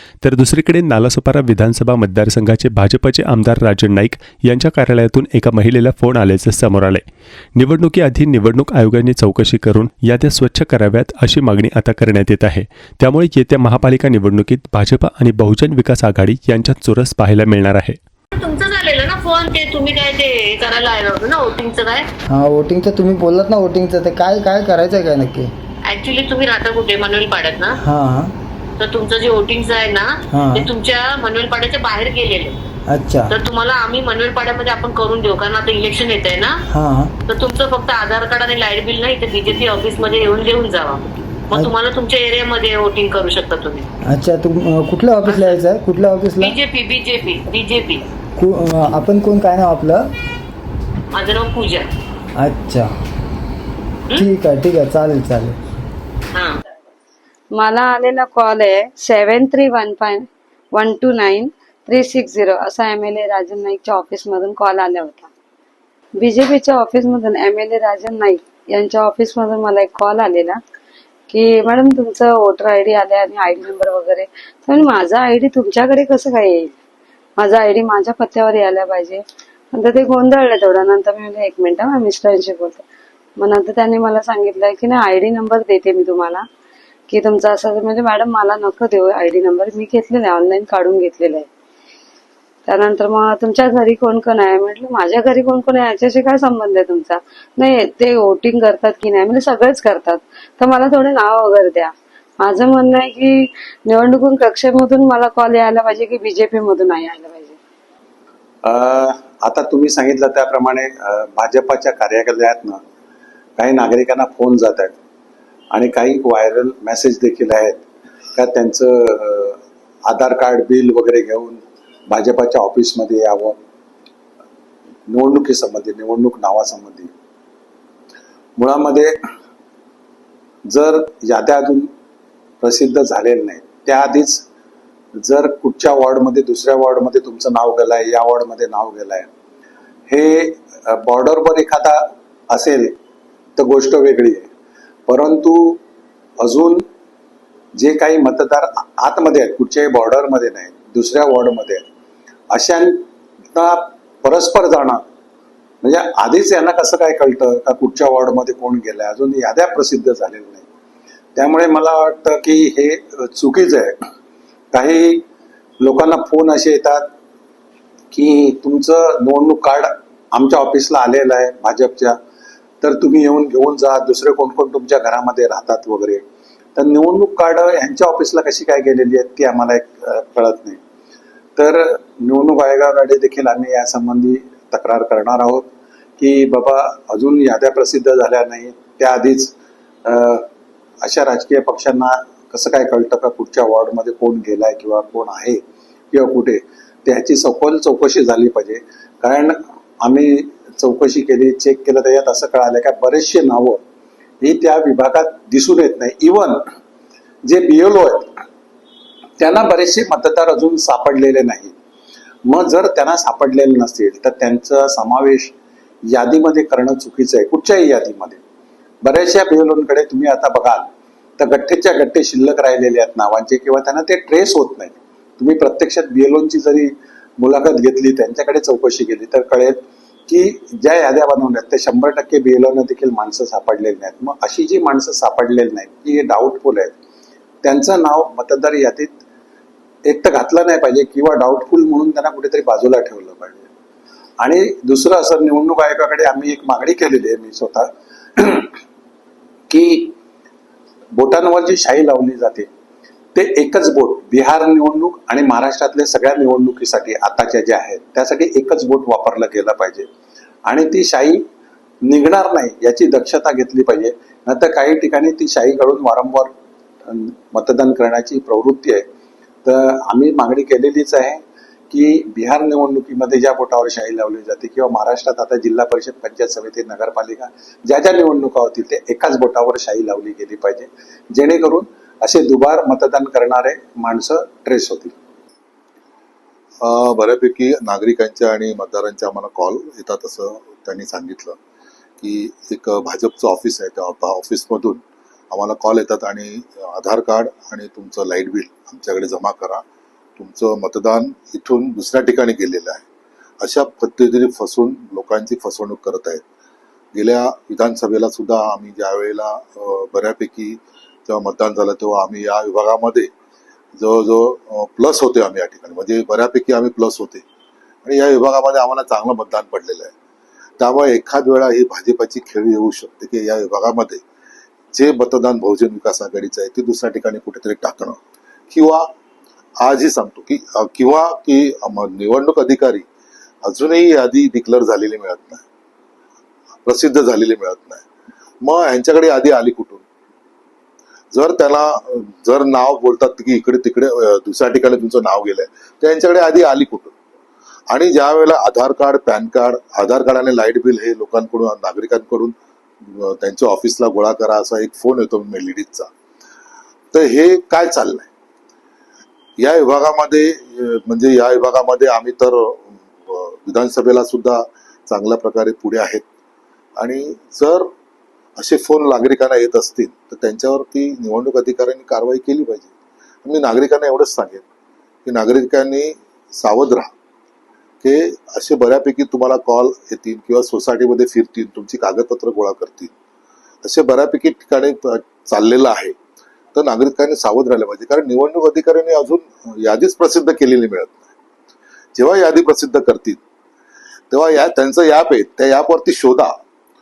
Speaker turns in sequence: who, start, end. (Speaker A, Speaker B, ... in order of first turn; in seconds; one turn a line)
Speaker A: 0.2-7.0
Speaker A: 7.6-18.0
Speaker B: 18.4-22.0
Speaker C: 22.3-25.5
Speaker B: 25.9-27.7
Speaker C: 27.8-28.3
Speaker B: 28.8-32.5
Speaker C: 30.3-30.7
Speaker C: 32.9-33.3
Speaker B: 33.3-36.6
Speaker C: 36.7-37.1
Speaker B: 37.3-43.8
Speaker C: 44.1-46.6
Speaker B: 46.5-48.0
Speaker C: 48.4-50.1
Speaker B: 51.1-51.9
Speaker C: 52.4-52.9
Speaker C: 54.2-55.5
Speaker D: 57.5-65.3
Speaker D: 66.2-70.6
Speaker D: 71.3-76.7
Speaker D: 77.4-79.2
Speaker D: 79.7-82.8
Speaker D: 83.4-86.4
Speaker D: 87.1-91.5
Speaker D: 92.7-103.3
Speaker D: 103.9-107.6
Speaker E: 108.7-112.8
Speaker E: 113.6-115.0
Speaker E: 115.7-123.6
Speaker E: 125.1-127.1
Speaker E: 128.6-129.2
Speaker E: 130.7-131.9
Speaker E: 132.6-134.4
Speaker E: 135.2-139.3
Speaker E: 140.1-142.9
Speaker E: 143.6-144.5
Speaker E: 145.1-145.8
Speaker E: 146.4-146.8
Speaker E: 147.8-151.9
Speaker E: 152.5-153.0
Speaker E: 153.5-155.0
Speaker E: 155.8-160.7
Speaker E: 161.4-164.0
Speaker E: 164.7-165.2
Speaker E: 165.8-167.1
Speaker E: 168.1-172.2
Speaker E: 172.8-176.2
Speaker E: 176.8-180.8
Speaker E: 181.6-190.5
Speaker E: 191.0-203.8
Speaker E: 204.4-206.6
Speaker E: 207.4-208.4
Speaker E: 209.4-211.8
Speaker E: 212.5-215.5
Speaker E: 216.1-218.4
Speaker E: 219.0-237.0
Speaker E: 237.6-239.1
Speaker E: 240.1-243.7
Speaker E: 244.4-248.7
Speaker E: 249.7-250.2
Speaker E: 251.1-252.7
Speaker E: 253.3-260.1
Speaker E: 260.7-261.4
Speaker E: 262.1-266.5
Speaker E: 267.1-269.0
Speaker E: 269.6-285.1
Speaker F: 286.8-291.6
Speaker F: 292.2-299.8
Speaker F: 300.4-303.1
Speaker F: 303.6-306.4
Speaker F: 307.1-313.3
Speaker F: 314.0-317.4
Speaker F: 318.0-320.1
Speaker F: 320.8-324.2
Speaker F: 324.9-328.2
Speaker F: 328.7-329.1
Speaker F: 329.8-333.1
Speaker F: 333.6-335.6
Speaker F: 336.9-338.0
Speaker F: 338.6-340.0
Speaker F: 341.3-347.1
Speaker F: 347.9-352.5
Speaker F: 353.1-356.1
Speaker F: 357.1-358.3
Speaker F: 359.6-366.2
Speaker F: 367.0-367.9
Speaker F: 368.6-372.9
Speaker F: 373.4-374.6
Speaker F: 375.3-377.1
Speaker F: 378.0-383.1
Speaker F: 383.8-386.1
Speaker F: 386.7-391.3
Speaker F: 392.1-393.4
Speaker F: 394.3-396.5